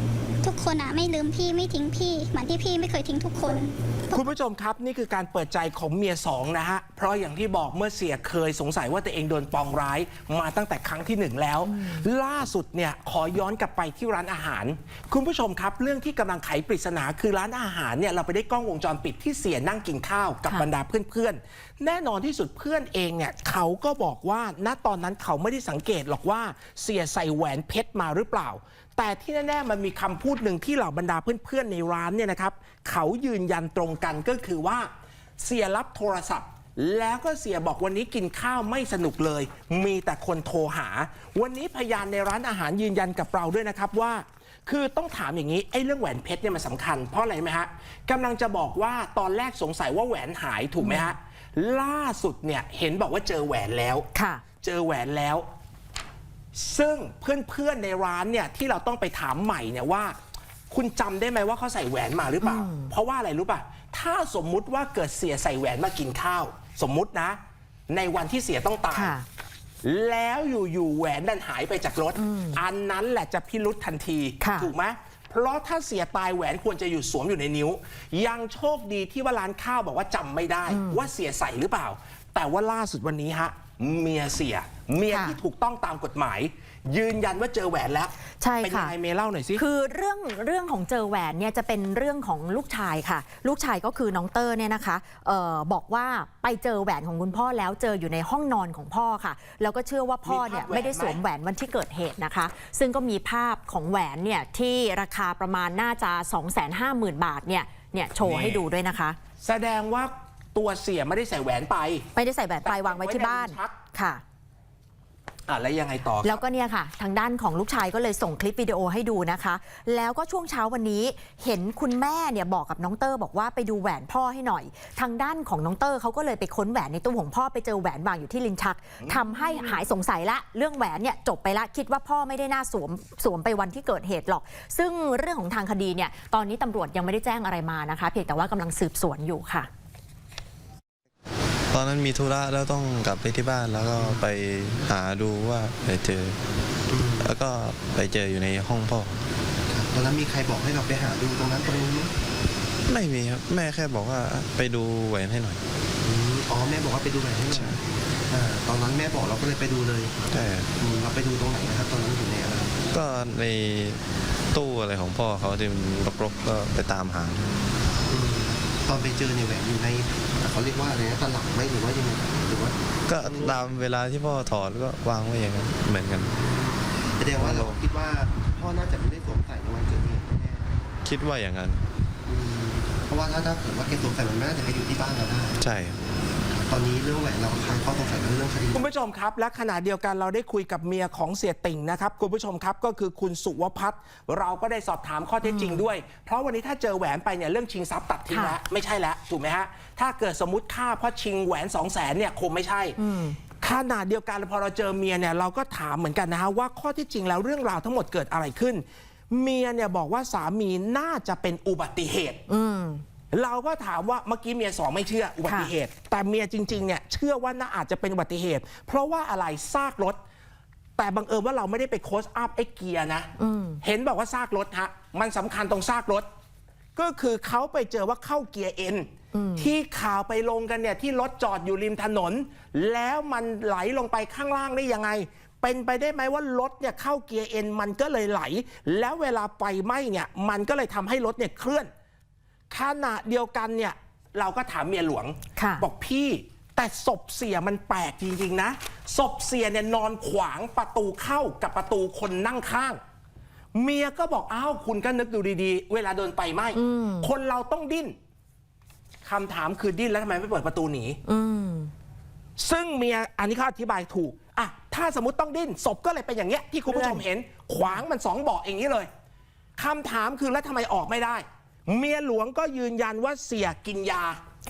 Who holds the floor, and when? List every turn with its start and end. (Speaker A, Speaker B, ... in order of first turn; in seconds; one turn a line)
Speaker A: 0.4-4.3
Speaker B: 4.1-34.9
Speaker C: 11.7-12.1
Speaker B: 35.4-54.1
Speaker C: 50.8-51.1
Speaker C: 54.1-54.4
Speaker B: 54.6-55.5
Speaker B: 56.5-60.2
Speaker B: 60.7-69.1
Speaker C: 62.4-62.9
Speaker C: 68.9-69.3
Speaker B: 69.8-89.6
Speaker C: 72.2-72.6
Speaker C: 74.4-74.7
Speaker C: 80.7-81.0
Speaker C: 85.1-85.4
Speaker C: 88.4-88.9
Speaker C: 89.6-109.2
Speaker B: 100.2-101.2
Speaker B: 108.2-108.6
Speaker B: 109.4-112.1
Speaker C: 112.2-114.2
Speaker B: 112.6-113.8
Speaker B: 115.5-116.4
Speaker C: 116.2-139.7
Speaker B: 129.0-129.7
Speaker D: 141.7-146.4
Speaker E: 144.0-144.2
Speaker E: 146.9-147.3
Speaker D: 147.2-149.2
Speaker E: 149.7-152.1
Speaker D: 152.9-155.6
Speaker E: 156.0-160.2
Speaker D: 157.5-157.8
Speaker D: 160.3-160.7
Speaker E: 160.8-162.8
Speaker D: 162.9-167.5
Speaker E: 168.1-173.7
Speaker D: 173.1-176.4
Speaker E: 176.4-180.8
Speaker D: 177.3-177.8
Speaker D: 181.0-181.8
Speaker E: 182.3-185.6
Speaker D: 185.6-186.0
Speaker E: 186.5-188.9
Speaker B: 188.7-203.0
Speaker C: 195.4-195.8
Speaker C: 203.0-203.4
Speaker B: 203.6-212.4
Speaker C: 212.5-213.0
Speaker B: 213.3-220.2
Speaker B: 221.0-223.3
Speaker C: 223.4-223.8
Speaker B: 223.8-226.3
Speaker B: 227.0-241.9
Speaker C: 229.3-229.7
Speaker B: 242.7-253.0
Speaker C: 245.6-245.8
Speaker B: 253.8-258.2
Speaker C: 256.8-257.3
Speaker B: 259.2-261.2
Speaker C: 261.3-261.9
Speaker B: 262.6-269.1
Speaker C: 266.9-267.2
Speaker B: 269.8-274.4